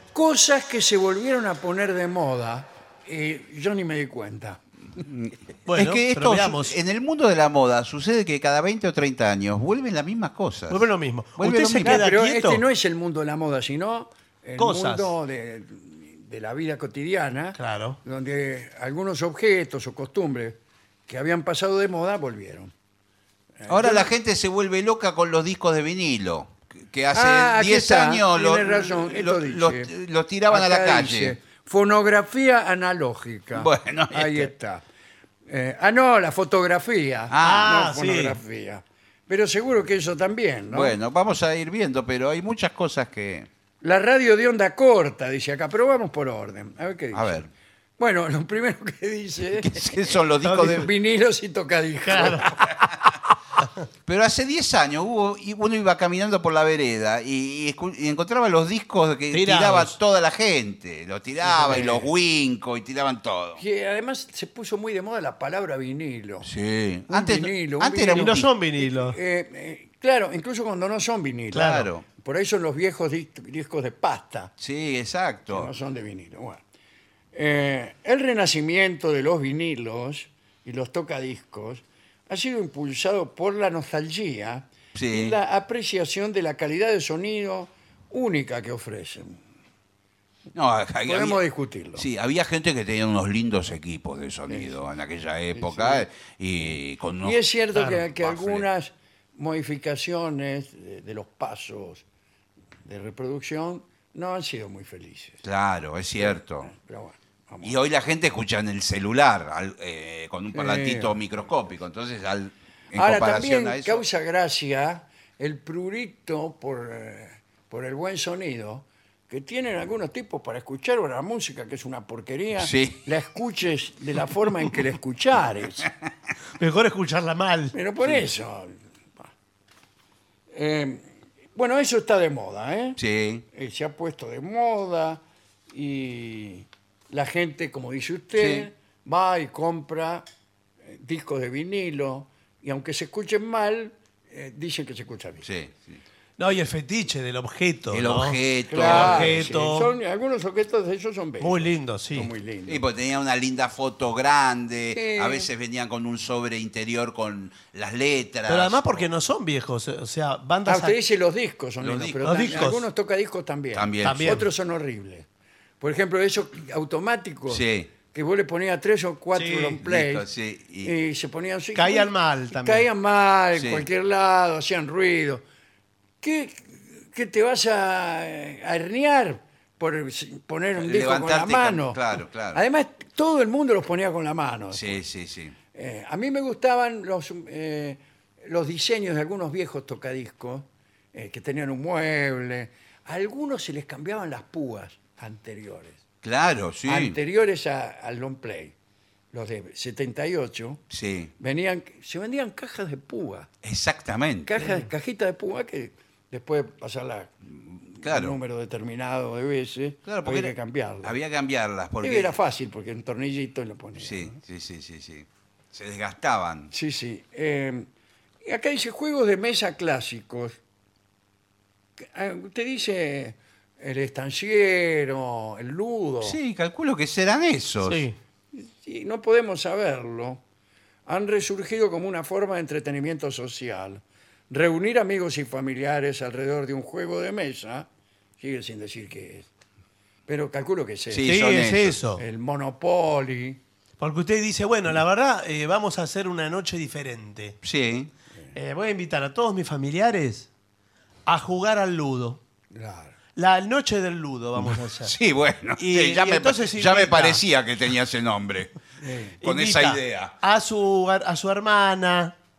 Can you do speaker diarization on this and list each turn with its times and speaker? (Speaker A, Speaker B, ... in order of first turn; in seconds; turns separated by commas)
Speaker A: 0.1-4.6, Speaker B: 5.0-12.1, Speaker C: 5.7-6.8, Speaker C: 10.7-12.6, Speaker A: 11.8-22.7, Speaker C: 14.6-15.1, Speaker C: 17.5-18.0, Speaker A: 23.6-24.1, Speaker B: 23.7-31.3, Speaker A: 27.1-29.9, Speaker A: 30.5-34.8, Speaker B: 33.5-34.5, Speaker A: 35.5-41.0, Speaker B: 37.3-37.8, Speaker C: 37.4-38.4, Speaker B: 40.7-43.5, Speaker A: 43.8-47.5, Speaker B: 47.1-47.5, Speaker A: 48.0-52.9, Speaker B: 49.6-50.9, Speaker C: 50.4-50.9, Speaker C: 52.0-52.5, Speaker B: 54.0-63.6, Speaker C: 59.3-59.9, Speaker A: 61.4-62.1, Speaker A: 63.6-66.5, Speaker B: 66.4-68.5, Speaker A: 67.1-74.5, Speaker C: 68.1-69.2, Speaker C: 71.5-71.9, Speaker B: 71.6-72.0, Speaker B: 74.6-75.7, Speaker A: 75.5-76.6, Speaker A: 77.3-89.4, Speaker B: 84.9-85.4, Speaker B: 90.5-91.4, Speaker A: 91.1-92.0, Speaker B: 92.0-98.7, Speaker A: 94.5-94.8, Speaker A: 95.5-96.1, Speaker A: 97.2-102.0, Speaker C: 97.7-98.0, Speaker A: 102.8-105.4, Speaker B: 105.4-106.7, Speaker A: 106.2-107.8, Speaker B: 107.6-114.0, Speaker A: 110.5-111.3, Speaker A: 112.9-125.9, Speaker B: 122.6-123.1, Speaker C: 126.6-127.7, Speaker A: 127.7-128.7, Speaker A: 130.5-133.0, Speaker B: 133.0-133.4, Speaker A: 133.5-140.2, Speaker B: 138.4-138.7, Speaker A: 140.8-145.4, Speaker B: 145.4-146.0, Speaker C: 146.4-149.9, Speaker B: 147.9-149.4, Speaker A: 148.7-152.8, Speaker C: 151.4-152.3, Speaker B: 152.6-159.1, Speaker A: 154.9-155.5, Speaker C: 158.4-161.0, Speaker A: 160.7-165.2, Speaker B: 161.8-162.6, Speaker C: 162.2-162.8, Speaker B: 163.7-164.4, Speaker C: 164.0-164.4, Speaker A: 165.8-170.3, Speaker B: 167.5-167.9, Speaker C: 169.3-169.8, Speaker B: 169.8-170.9, Speaker A: 170.8-175.4, Speaker C: 171.7-172.9, Speaker B: 173.5-173.8, Speaker A: 176.2-182.0, Speaker B: 180.8-182.6, Speaker A: 182.5-185.0, Speaker B: 184.7-185.5, Speaker A: 185.7-196.0, Speaker B: 196.2-197.2, Speaker A: 196.8-198.7, Speaker A: 199.3-200.8, Speaker B: 200.9-201.3, Speaker A: 201.4-203.5, Speaker B: 203.6-204.8, Speaker A: 204.4-211.2, Speaker B: 208.0-208.4, Speaker B: 210.1-212.4, Speaker A: 212.0-214.3, Speaker B: 214.0-216.7, Speaker A: 216.7-217.9, Speaker A: 218.4-220.6, Speaker A: 222.1-226.4, Speaker B: 226.2-228.1, Speaker C: 227.8-228.2, Speaker A: 228.5-230.4, Speaker A: 231.1-237.9, Speaker A: 238.4-239.5, Speaker A: 240.3-241.4, Speaker B: 241.1-242.0, Speaker C: 241.2-242.2, Speaker A: 242.2-243.6, Speaker C: 244.0-247.6, Speaker B: 247.6-248.1, Speaker C: 248.5-250.5, Speaker C: 251.2-252.4, Speaker A: 252.7-253.1, Speaker C: 253.3-255.1, Speaker B: 254.6-258.7, Speaker C: 255.8-257.4, Speaker A: 259.0-259.4, Speaker C: 259.4-262.3, Speaker B: 259.4-260.3